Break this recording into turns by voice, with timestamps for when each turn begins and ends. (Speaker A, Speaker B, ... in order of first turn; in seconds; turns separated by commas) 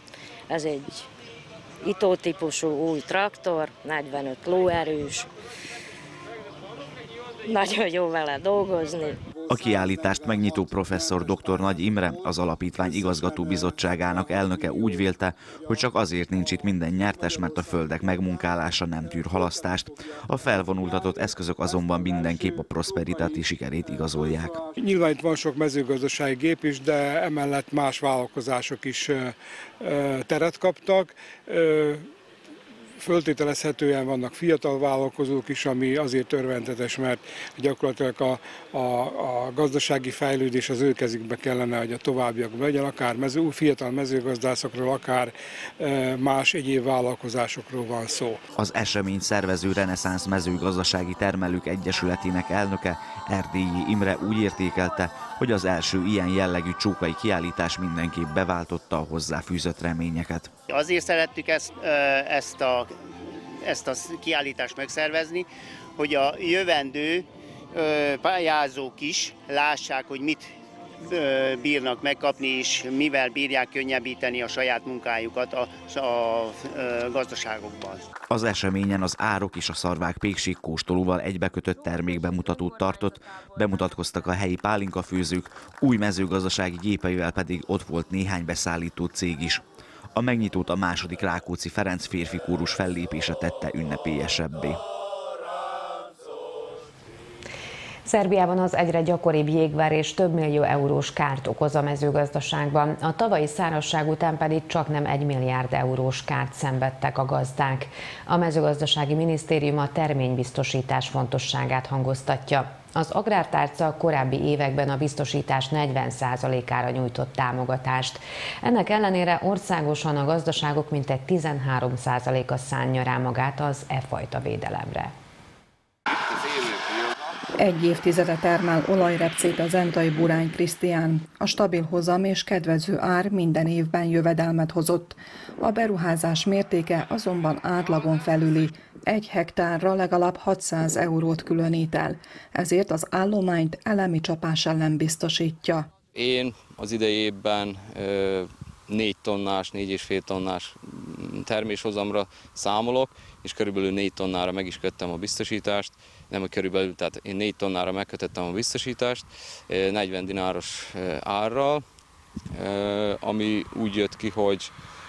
Speaker A: 0.5-1.1, Speaker A: 1.8-5.3, Speaker A: 7.4-9.2, Speaker B: 9.5-24.6, Speaker C: 24.7-32.1, Speaker C: 33.0-48.4, Speaker B: 48.5-60.5, Speaker D: 60.7-70.5, Speaker D: 71.0-78.0, Speaker B: 78.3-89.6, Speaker B: 90.1-94.8, Speaker E: 98.0-125.1, Speaker F: 127.6-145.9, Speaker G: 146.1-161.8, Speaker G: 162.5-164.7